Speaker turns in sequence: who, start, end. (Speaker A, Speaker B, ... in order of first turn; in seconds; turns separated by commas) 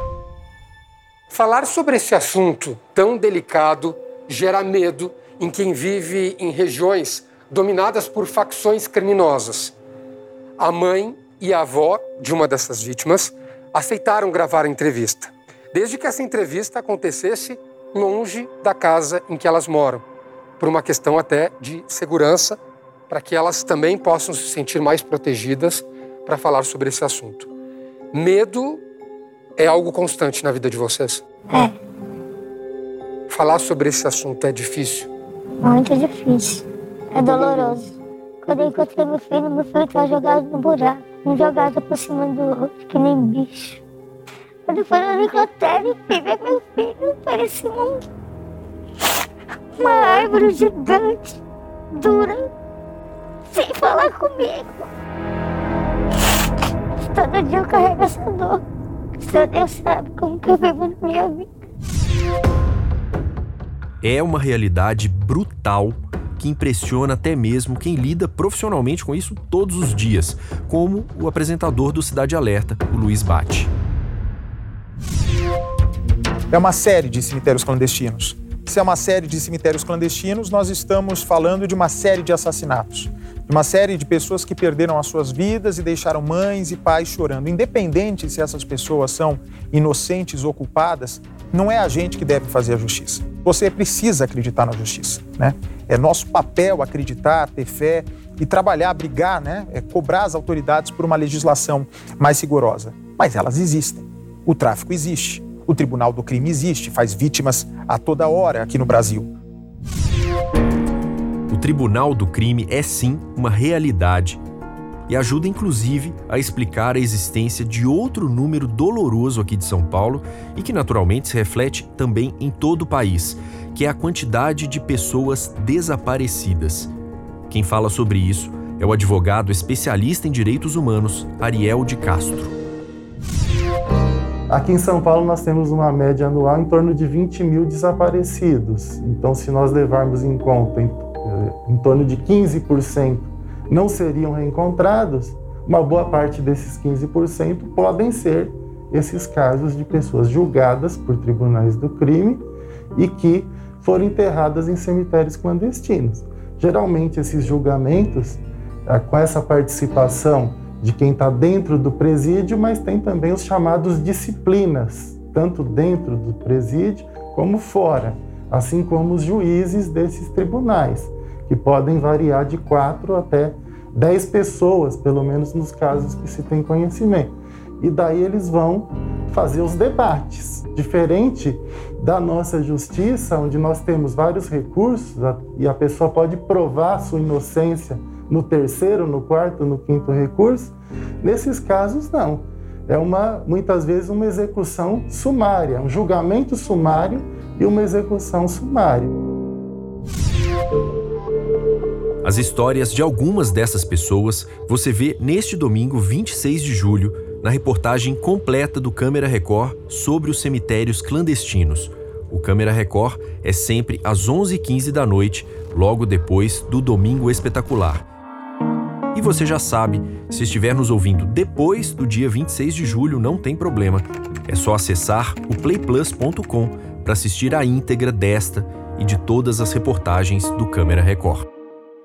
Speaker A: 1.3-9.7, Speaker A: 10.6-20.0, Speaker A: 20.6-22.6, Speaker A: 23.1-27.5, Speaker A: 28.1-28.8, Speaker A: 29.6-31.2, Speaker A: 33.3-35.1, Speaker B: 35.6-37.9, Speaker A: 37.2-37.8, Speaker B: 38.4-43.8, Speaker B: 44.7-48.0, Speaker B: 49.8-51.4, Speaker B: 51.9-52.5, Speaker B: 53.5-54.9, Speaker B: 57.0-58.6, Speaker B: 59.2-61.5, Speaker C: 64.0-73.7, Speaker D: 76.5-109.3, Speaker C: 111.5-114.4, Speaker C: 115.1-126.9, Speaker C: 127.5-132.5, Speaker E: 134.5-199.1, Speaker C: 202.2-218.0, Speaker C: 219.1-231.5